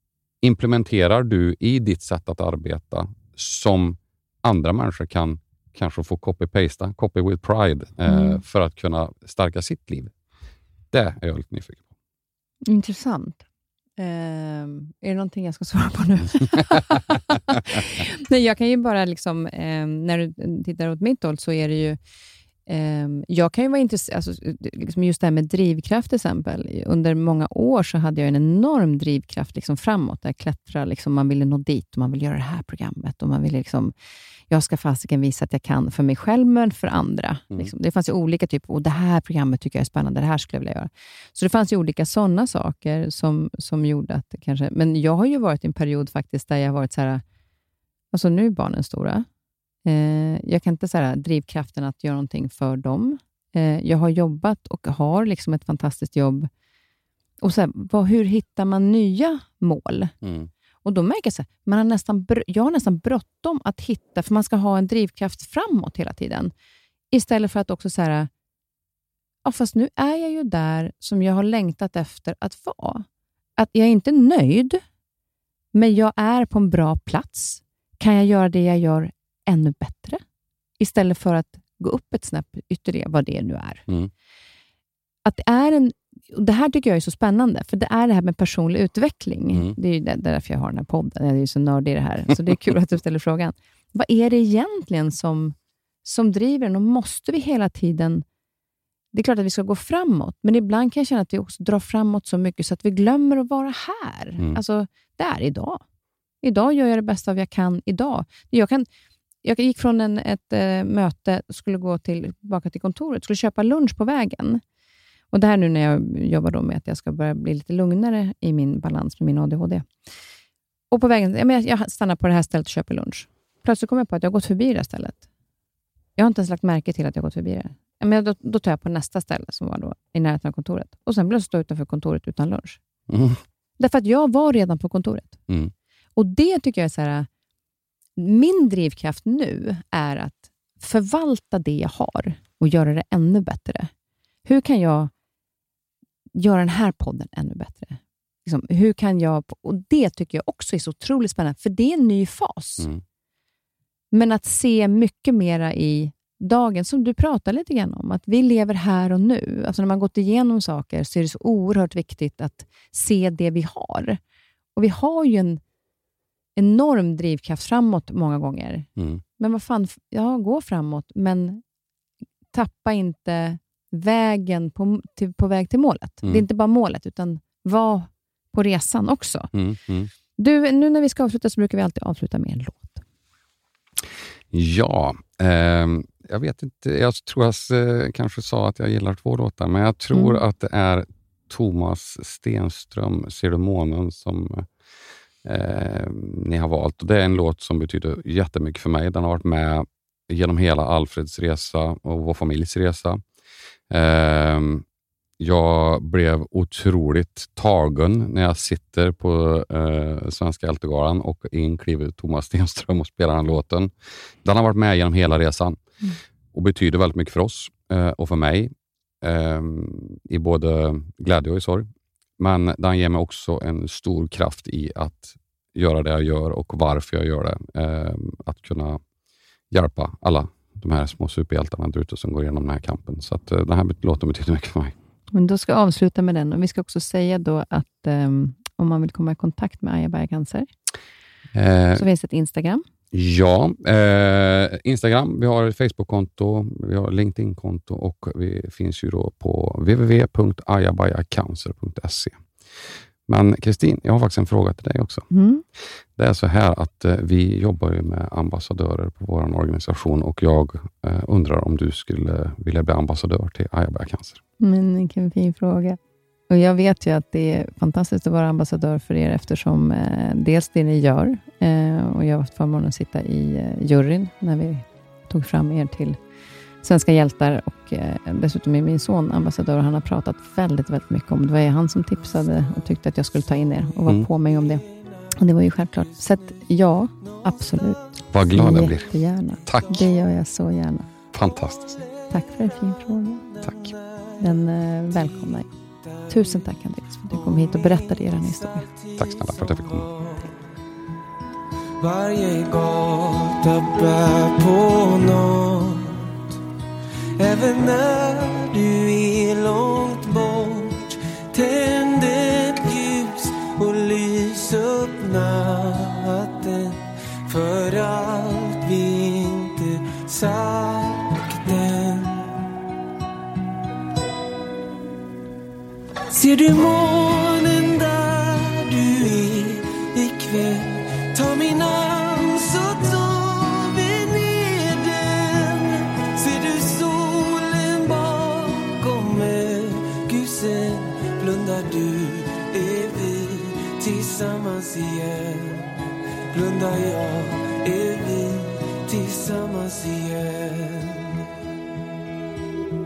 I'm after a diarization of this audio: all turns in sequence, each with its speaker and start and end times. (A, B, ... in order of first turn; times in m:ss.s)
0:00.4-0:10.1 A
0:08.1-0:08.4 B
0:10.9-0:11.8 A
0:12.6-0:13.4 B
0:14.0-0:22.0 B
0:22.7-0:33.9 B
0:34.5-0:47.2 B
0:48.1-0:49.3 B
0:49.8-0:56.5 B
0:57.4-1:00.1 B
1:00.2-1:00.5 A
1:00.8-1:06.5 B
1:07.1-1:08.3 B
1:09.4-1:13.1 B
1:13.6-1:14.8 B
1:15.7-1:20.2 B
1:20.8-1:23.8 B
1:25.2-1:38.2 B
1:39.1-1:45.8 B
1:46.4-1:48.9 B
1:49.4-1:54.6 B
1:55.3-1:59.9 B
2:00.9-2:05.2 B
2:06.2-2:12.8 B
2:13.1-2:13.4 A
2:13.8-2:15.4 B
2:16.2-2:17.3 B
2:18.2-2:23.9 B
2:24.4-2:25.1 B
2:26.4-2:32.9 B
2:34.1-2:44.2 B
2:44.8-2:45.6 B
2:46.6-2:51.6 B
2:49.0-2:49.2 A
2:52.5-2:59.5 B
2:59.5-3:00.1 A
3:00.4-3:03.0 B
3:04.5-3:14.7 A
3:10.1-3:10.4 B
3:15.4-3:23.2 A
3:23.9-3:24.8 A
3:25.4-3:35.8 A
3:36.5-3:41.9 A
3:42.4-3:49.0 A
3:49.7-3:55.0 A
3:55.3-4:00.7 B
4:01.5-4:02.0 A
4:02.0-4:02.8 B
4:03.1-4:12.4 A
4:13.3-4:15.3 A
4:15.3-4:15.6 B
4:16.2-4:24.4 A
4:24.6-4:26.0 B
4:26.5-4:36.2 B
4:36.8-4:51.1 B
4:48.3-4:49.1 A
4:49.7-4:50.1 A
4:51.3-4:52.0 A
4:52.3-4:53.5 B
4:53.5-4:54.3 C
4:53.6-4:53.9 A
4:54.4-4:55.7 B
4:56.3-4:58.9 B
4:57.4-5:00.6 C
4:59.2-5:00.1 A
5:02.0-5:06.5 C
5:07.4-5:22.6 C
5:26.3-5:51.4 C